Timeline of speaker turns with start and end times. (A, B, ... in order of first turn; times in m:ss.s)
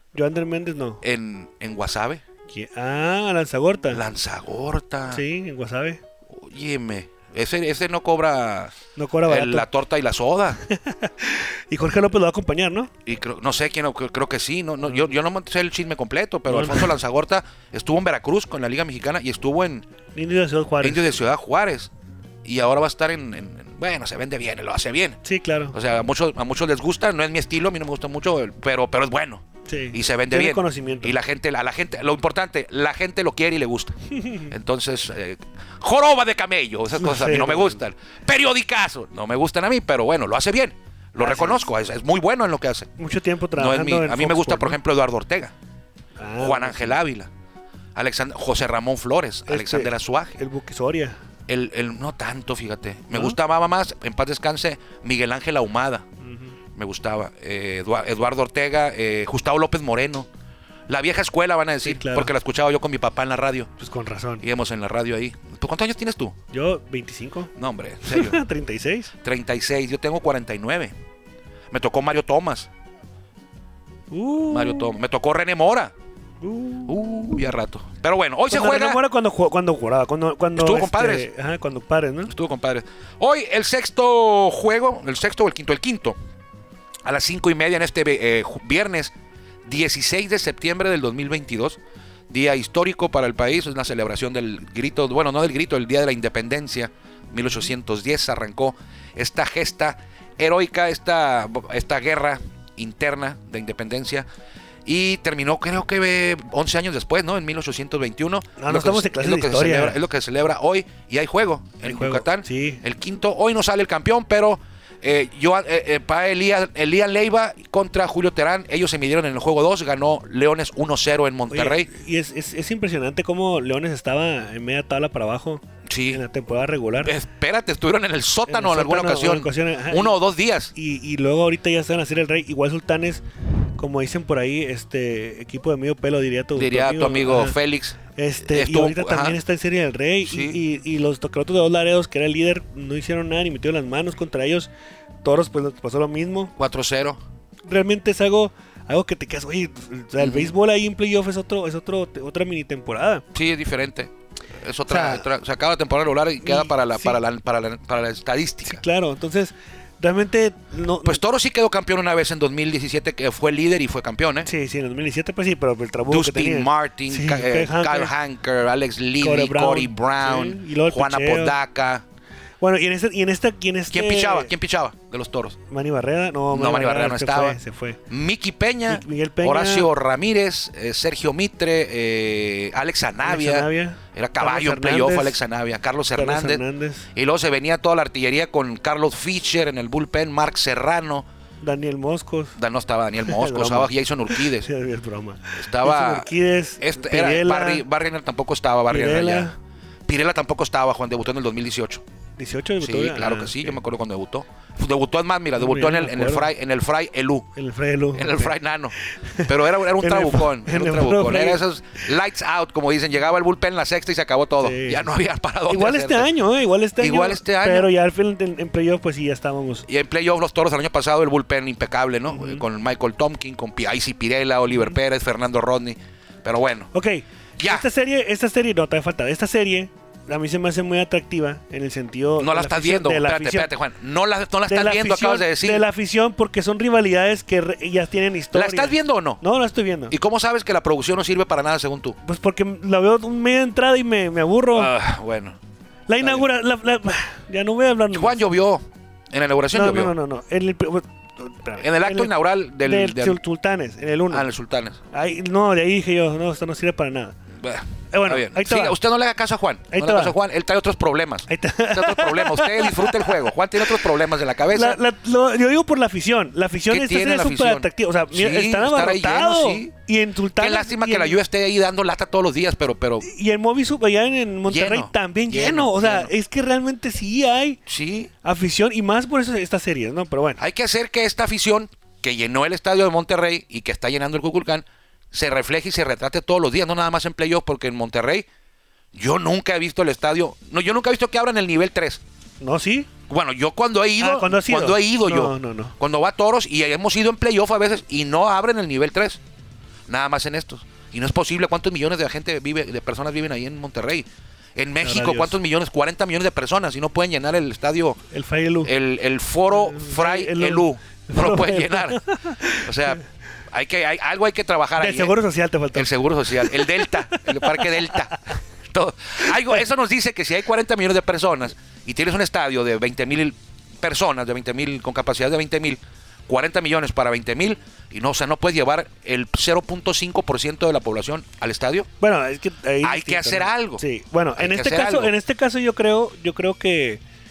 0:00.1-0:01.0 A
0:01.0-0:02.2 B
0:02.5-0:04.0 A
0:03.9-0:05.2 B
0:05.1-0:06.0 A
0:06.3-0:08.8 B
0:09.0-0:09.7 A
0:09.3-0:10.6 B
0:10.7-0:12.9 A
0:13.0-0:19.8 B
0:16.5-0:16.9 A
0:20.1-0:21.1 A
0:20.8-0:21.9 B
0:22.4-0:25.2 B
0:25.2-0:25.7 A
0:25.7-0:34.0 B
0:29.7-0:31.1 A
0:34.2-0:34.5 A
0:34.5-0:42.9 B
0:37.0-0:37.8 A
0:41.2-0:41.6 A
0:43.0-0:44.8 A
0:43.5-0:45.5 B
0:46.2-0:47.0 A
0:46.4-0:47.3 B
0:47.9-0:50.4 B
0:49.5-0:51.2 A
0:51.5-0:56.0 B
0:56.2-0:56.5 A
0:56.7-1:00.3 B
1:00.9-1:03.7 B
1:01.8-1:02.3 A
1:03.8-1:04.4 A
1:04.4-1:06.3 B
1:06.5-1:07.5 A
1:07.6-1:08.4 B
1:08.0-1:09.1 A
1:09.2-1:10.9 B
1:11.7-1:12.7 B
1:14.1-1:14.9 A
1:14.5-1:15.9 B
1:16.4-1:17.2 A
1:16.8-1:19.0 B
1:18.5-1:22.3 A
1:20.6-1:21.3 B
1:22.3-1:26.2 B
1:27.0-1:29.1 B
1:29.6-1:31.8 B
1:32.3-1:44.2 B
1:44.8-2:01.9 B
1:48.6-1:50.0 A
1:51.8-1:52.8 A
2:01.5-2:07.1 A
2:05.9-2:06.2 B
2:07.0-2:10.7 B
2:08.5-2:10.2 A
2:10.7-2:13.2 A
2:13.8-2:17.6 A
2:16.6-2:19.4 B
2:18.1-2:24.7 A
2:20.2-2:20.6 B
2:25.2-2:26.5 A
2:26.6-2:27.2 B
2:27.6-2:33.2 A
2:30.2-2:30.5 B
2:33.3-2:38.8 B
2:34.9-2:35.2 A
2:36.4-2:37.2 A
2:38.6-2:41.2 A
2:41.0-2:44.5 B
2:44.4-2:48.1 A
2:46.1-2:52.0 B
2:49.2-2:51.6 A
2:52.6-2:54.5 A
2:53.9-2:55.6 B
2:55.7-2:58.0 A
2:56.5-3:06.6 B
2:58.9-2:59.9 A
3:03.2-3:05.4 A
3:06.1-3:07.0 A
3:07.1-3:11.2 B
3:11.6-3:12.6 A
3:12.6-3:14.7 B
3:13.2-3:17.8 A
3:15.6-3:19.5 B
3:18.9-3:19.5 A
3:20.0-3:22.0 B
3:22.4-3:23.8 A
3:22.8-3:27.5 B
3:25.6-3:26.5 A
3:27.6-3:28.5 A
3:28.1-3:36.3 B
3:29.2-3:31.6 A
3:34.6-3:35.1 A
3:35.7-3:39.8 A
3:37.0-3:37.9 B
3:39.9-3:46.9 B
3:42.3-3:42.6 A
3:46.9-3:53.7 A
3:47.6-3:47.8 B
3:52.4-3:55.8 B
3:54.7-4:00.1 A
3:58.5-3:59.4 B
4:00.1-4:02.2 B
4:02.2-4:04.9 A
4:04.7-4:05.6 B
4:06.1-4:08.4 A
4:06.2-4:06.4 B
4:08.1-4:10.1 B
4:09.7-4:14.5 A
4:11.8-4:13.4 B
4:14.3-4:15.0 B
4:15.1-4:17.4 A
4:17.6-4:25.0 B
4:18.1-4:19.0 A
4:19.9-4:20.3 A
4:21.5-4:23.8 A
4:24.7-4:31.4 A
4:26.9-4:29.9 B
4:30.6-4:33.2 B
4:33.2-4:37.8 A
4:34.7-4:36.3 B
4:37.9-4:38.3 B
4:38.4-4:40.6 A
4:40.6-4:48.4 B
4:49.1-4:52.2 B
4:52.6-4:53.1 A
4:53.3-4:59.4 B
4:54.2-4:55.9 A
5:00.1-5:08.2 B
5:05.0-5:05.6 A
5:08.3-5:08.9 A
5:08.8-5:12.2 B
5:09.7-5:13.2 A
5:12.8-5:15.3 B
5:15.0-5:18.2 A
5:15.9-5:32.1 B
5:32.2-5:37.2 A
5:33.0-5:34.0 B
5:34.6-5:35.3 B